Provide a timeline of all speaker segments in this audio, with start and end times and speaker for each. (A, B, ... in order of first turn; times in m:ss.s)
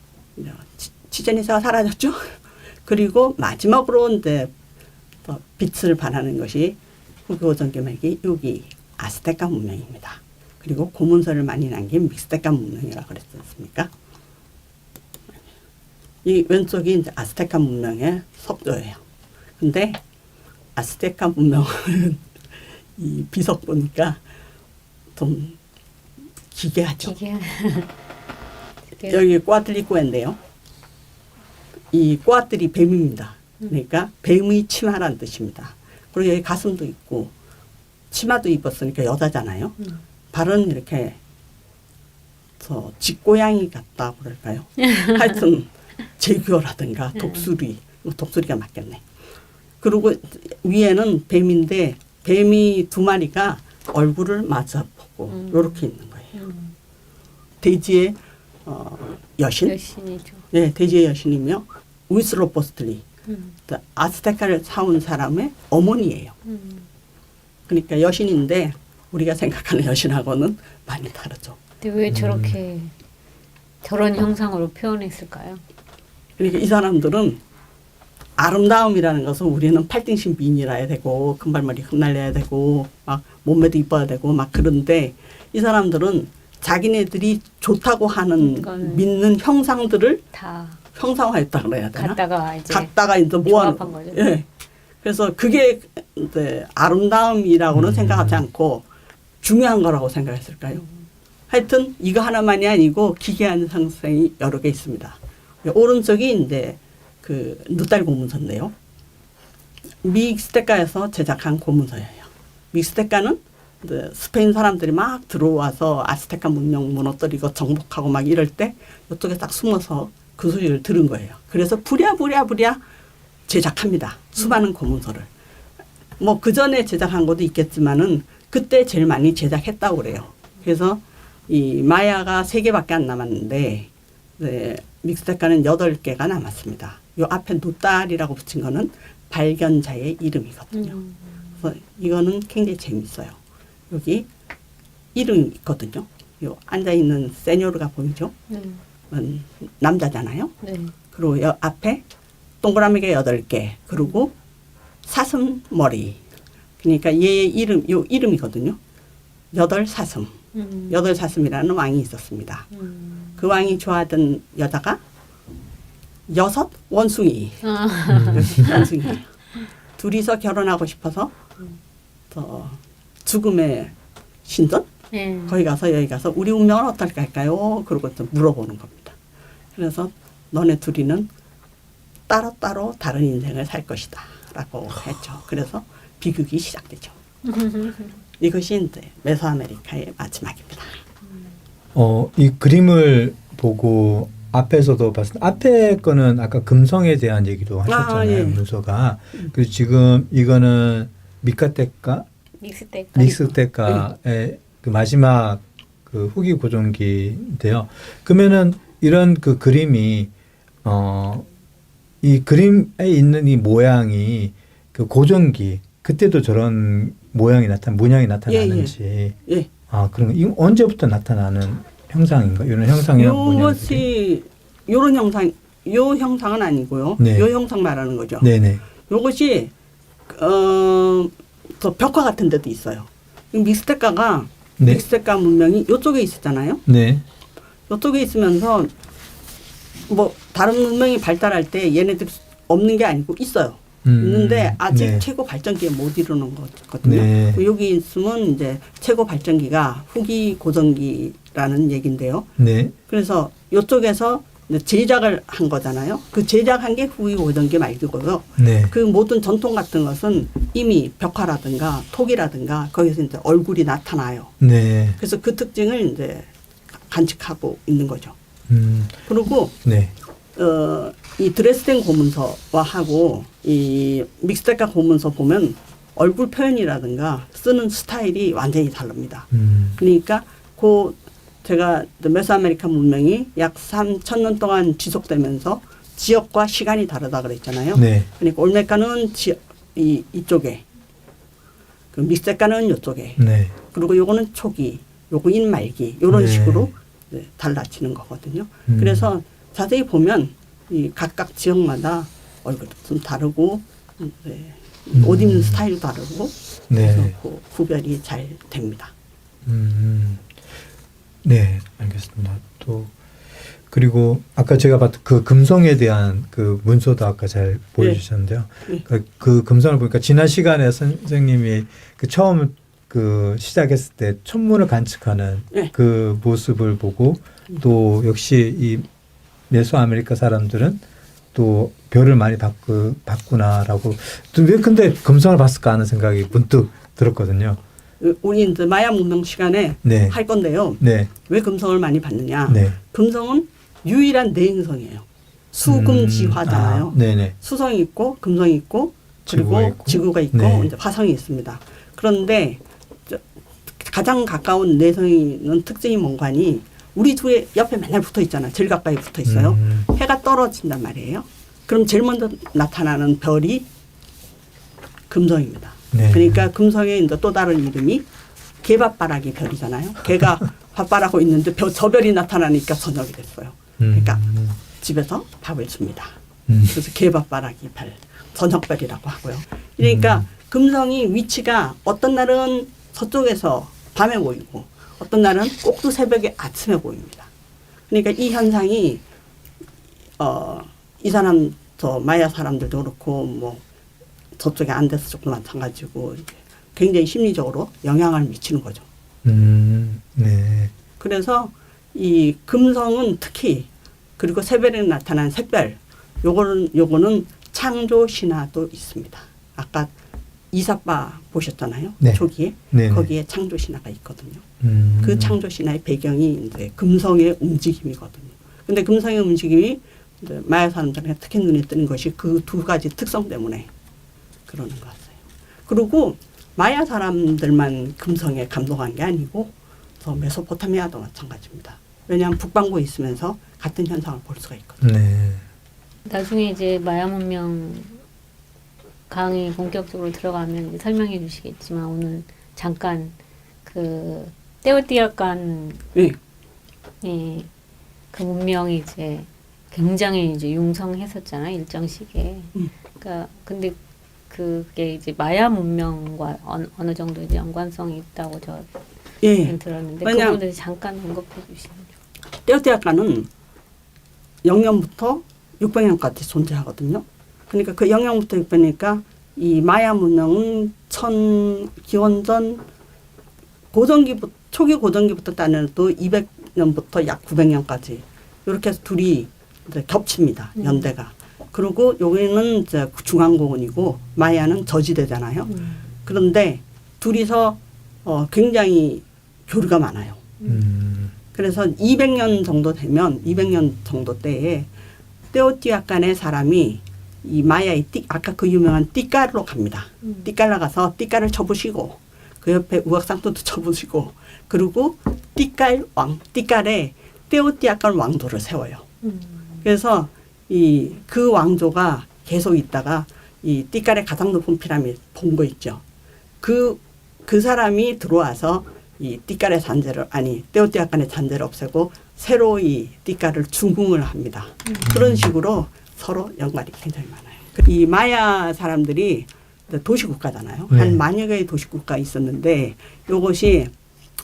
0:00.4-0:04.5 A
0:05.3-0:13.9 A
0:16.2-0:19.0 A
0:19.6-0:20.0 A
0:20.8-0:22.2 A
0:23.0-0:24.2 A
0:25.2-0:25.6 A
0:26.5-0:27.1 A
0:27.1-0:27.9 B
0:29.1-0:30.4 A
0:31.9-0:37.3 A
0:38.1-0:39.8 A
0:40.3-0:41.2 A
0:42.6-0:49.0 A
0:49.8-0:56.4 A
0:55.3-0:56.8 B
0:57.6-0:59.8 A
0:59.6-1:00.4 B
1:00.5-1:03.0 A
1:03.3-1:03.6 B
1:03.7-1:06.3 A
1:06.4-1:06.9 B
1:07.7-1:11.6 A
1:11.8-1:12.9 B
1:12.1-1:12.6 C
1:13.8-1:15.6 B
1:16.4-1:17.4 A
1:18.4-1:30.2 A
1:28.4-1:29.1 B
1:30.3-1:30.8 B
1:30.9-1:34.5 A
1:32.0-1:32.9 B
1:33.4-1:34.3 B
1:35.0-1:38.8 A
1:37.7-1:38.5 C
1:39.4-1:40.8 A
1:41.5-1:48.7 A
1:50.0-2:02.8 A
2:03.5-2:05.3 A
2:06.2-2:21.0 A
2:20.8-2:21.4 B
2:21.6-2:23.4 A
2:23.9-2:24.3 A
2:25.1-2:28.4 A
2:28.5-2:28.8 B
2:29.1-2:30.5 A
2:30.6-2:30.9 B
2:31.1-2:32.0 A
2:32.6-2:34.3 A
2:35.1-2:36.2 A
2:36.8-2:38.8 A
2:39.5-2:40.4 A
2:40.6-2:41.0 B
2:40.9-2:42.7 A
2:42.7-2:43.4 B
2:43.4-2:45.0 A
2:46.3-2:47.6 A
2:47.6-2:49.1 B
2:48.1-2:48.8 C
2:48.3-2:49.3 A
2:50.0-2:51.3 A
2:52.3-2:53.9 A
2:54.5-2:54.9 A
2:55.1-2:55.6 B
2:55.5-2:59.2 A
2:59.8-3:01.3 A
3:02.3-3:07.1 A
3:07.5-3:08.0 B
3:08.4-3:11.0 A
3:12.0-3:22.3 C
3:17.9-3:18.6 A
3:22.6-3:23.6 B
3:23.1-3:30.3 C
3:30.8-3:31.5 C
3:32.2-3:39.4 C
3:38.5-3:39.0 A
3:39.9-3:44.0 C
3:43.2-3:48.5 A
3:47.2-3:47.5 C
3:48.4-3:48.8 C
3:49.1-3:49.7 A
3:50.3-3:56.8 A
3:54.8-3:55.0 C
3:56.9-3:57.2 C
3:57.9-3:58.9 A
4:00.1-4:12.5 A
4:04.0-4:05.3 C
4:07.0-4:07.6 C
4:12.6-4:13.0 C
4:13.1-4:24.5 A
4:18.6-4:18.9 C
4:24.6-4:25.2 C
4:25.2-4:26.5 A
4:27.1-4:28.4 A
4:28.7-4:29.2 C
4:29.3-4:29.8 A
4:29.8-4:30.1 C
4:30.6-4:50.8 A
4:39.5-4:40.0 C
4:48.0-4:48.3 C
4:52.1-5:09.1 A
4:53.4-4:53.7 C
4:56.3-4:56.9 C
4:58.9-4:59.3 C
5:05.1-5:05.8 C
5:06.9-5:07.3 C
5:09.6-5:10.6 C
5:11.4-5:13.1 C
5:13.9-5:29.1 C
5:29.7-5:31.0 C
5:31.5-5:37.8 C
5:38.2-6:03.9 A
5:40.0-5:40.4 C
5:41.0-5:41.3 C
5:42.7-5:43.0 C
5:45.9-5:47.5 C
5:49.5-5:50.9 C
5:59.5-6:00.1 C
6:05.3-6:08.2 A
6:06.1-6:06.6 C
6:08.8-6:14.4 A
6:14.0-6:14.8 C
6:14.9-6:27.5 A
6:16.7-6:17.0 C
6:20.0-6:20.4 C
6:28.1-6:29.2 A
6:30.4-6:33.8 A
6:34.6-6:39.1 A
6:39.4-6:40.9 C
6:41.2-6:50.1 A
6:50.7-6:54.6 A
6:52.2-6:53.3 C
6:54.8-6:55.6 C
6:55.2-7:03.9 A
7:04.7-7:15.0 A
7:15.0-7:15.6 C
7:16.2-7:18.2 B
7:19.3-7:26.0 B
7:27.2-7:27.7 B
7:28.3-7:34.0 B
7:34.5-7:38.9 B
7:39.4-7:40.6 A
7:39.6-7:42.1 B
7:42.6-7:43.5 A
7:44.6-7:52.8 A
7:53.9-8:10.5 A
8:00.8-8:01.1 B
8:10.6-8:11.3 C
8:11.5-8:14.9 A
8:15.5-8:29.1 A
8:29.2-8:29.8 B
8:29.8-8:36.0 A
8:36.6-8:53.9 A
8:45.1-8:45.5 C
8:50.9-8:51.2 C